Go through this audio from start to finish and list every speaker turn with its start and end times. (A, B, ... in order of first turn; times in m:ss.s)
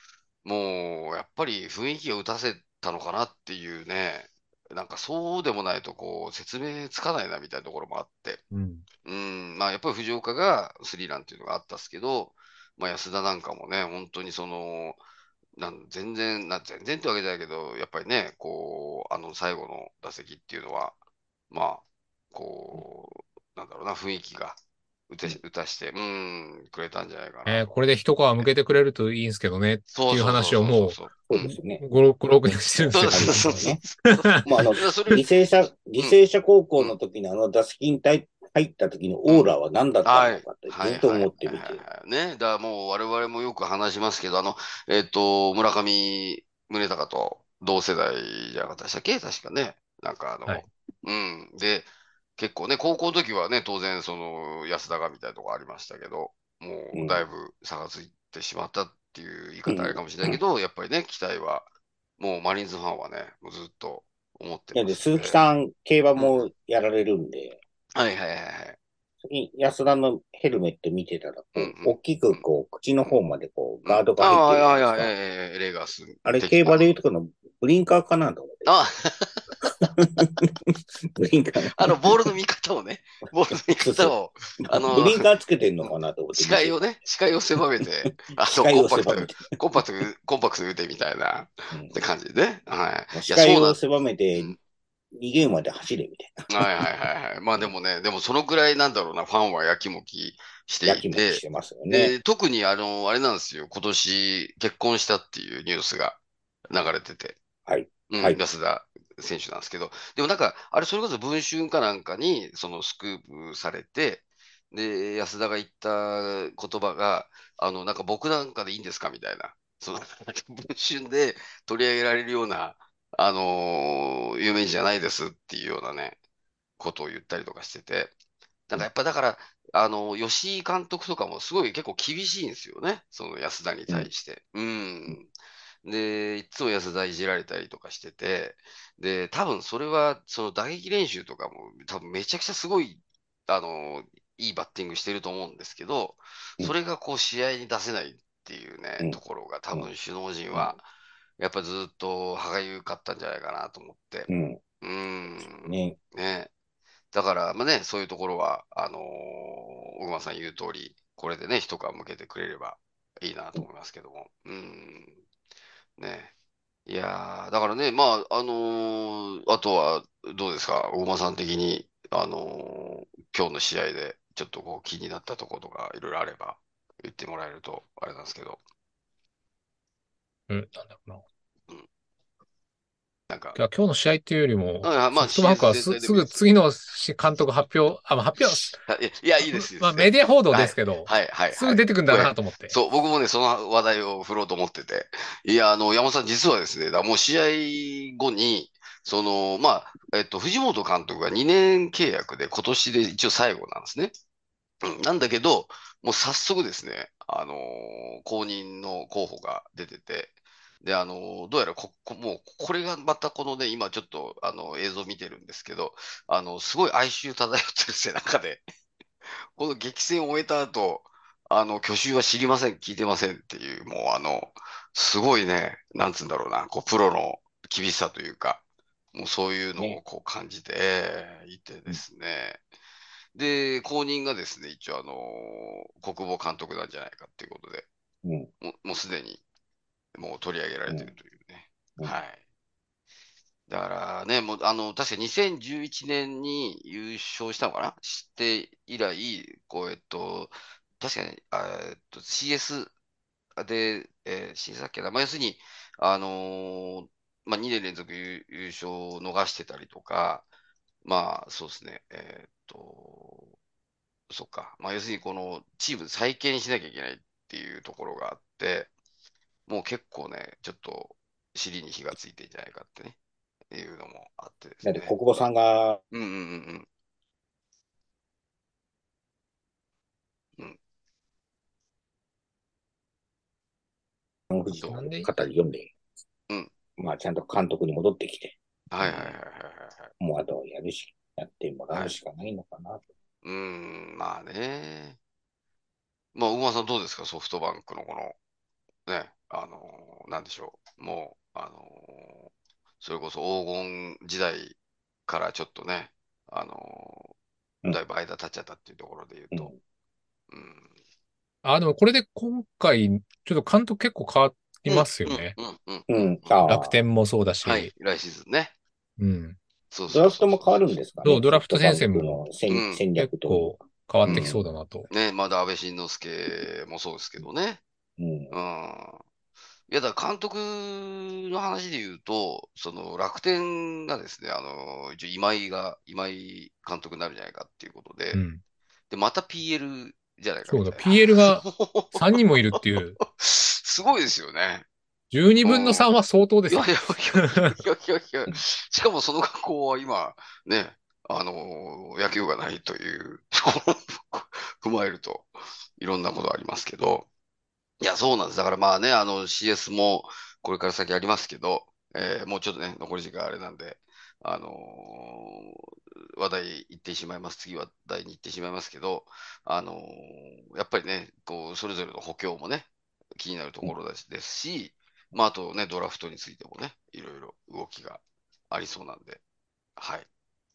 0:00.4-0:08.4 A
0:08.5-0:08.8 B
0:09.0-0:15.0 A
0:15.6-0:21.0 A
0:21.5-0:24.6 A
0:25.1-0:27.7 A
0:27.4-0:34.4 B
0:29.9-0:31.5 A
0:31.3-0:31.8 C
0:32.4-0:33.8 C
0:32.9-0:35.2 A
0:34.4-0:41.8 C
0:39.3-0:39.5 A
0:40.0-1:01.7 A
0:56.9-0:57.2 C
0:59.7-1:00.4 C
1:02.2-1:05.4 A
1:04.7-1:07.6 C
1:06.2-1:06.5 A
1:07.9-1:08.8 A
1:09.2-1:15.1 C
1:11.5-1:12.4 A
1:13.8-1:16.9 A
1:16.2-1:18.7 C
1:18.6-1:19.5 A
1:19.6-1:22.1 C
1:21.7-1:25.3 A
1:23.8-1:26.8 C
1:26.3-1:33.8 A
1:28.5-1:29.5 C
1:33.1-1:34.6 C
1:35.1-1:36.9 C
1:36.5-1:47.4 A
1:40.8-1:42.1 C
1:47.7-1:48.4 C
1:48.1-2:06.2 A
2:06.8-2:08.1 A
2:08.7-2:15.3 A
2:15.8-2:30.8 A
2:31.4-2:34.3 A
2:34.3-2:34.6 C
2:34.8-2:36.5 A
2:35.4-2:36.0 C
2:37.1-2:45.1 A
2:46.0-2:46.3 A
2:46.9-2:58.6 A
3:00.5-3:01.2 B
3:03.3-3:03.6 A
3:03.6-3:08.8 B
3:04.8-3:06.4 A
3:08.4-3:24.1 A
3:09.5-3:12.8 B
3:24.8-3:38.6 A
3:39.5-3:48.6 A
3:49.1-3:52.6 A
3:53.3-3:57.9 A
3:58.2-3:58.5 C
3:58.6-3:59.4 A
4:00.1-4:02.4 A
4:03.7-4:12.9 A
4:13.6-4:20.4 A
4:21.0-4:23.5 A
4:24.3-4:28.9 A
4:29.7-4:33.2 A
4:33.7-4:35.1 A
4:34.8-4:36.0 C
4:36.1-4:36.9 A
4:44.5-4:45.9 C
4:44.8-4:45.0 A
4:44.9-4:45.3 B
4:47.0-4:49.4 C
4:48.9-4:50.1 A
4:50.2-4:53.0 C
4:53.4-4:55.2 A
4:56.3-4:58.4 A
4:59.1-5:02.5 A
5:03.0-5:07.3 A
5:07.9-5:09.7 A
5:10.5-5:10.9 A
5:11.6-5:15.5 B
5:14.9-5:16.7 A
5:16.1-5:17.0 C
5:16.7-5:17.9 B
5:17.6-5:18.7 A
5:19.2-5:19.6 B
5:19.9-5:20.8 A
5:20.1-5:23.7 C
5:21.2-5:22.4 B
5:22.7-5:23.0 A
5:23.2-5:25.1 B
5:24.2-5:24.6 C
5:25.1-5:27.8 A
5:28.2-5:28.5 C
5:28.5-5:29.2 A
5:29.9-5:38.4 A
5:38.3-5:38.6 B
5:39.1-5:44.8 A
5:40.7-5:43.2 B
5:45.3-5:47.8 B
5:45.6-5:46.1 A
5:46.7-5:57.3 A
5:58.0-6:05.8 A
6:06.4-6:19.4 A
6:20.0-6:20.3 A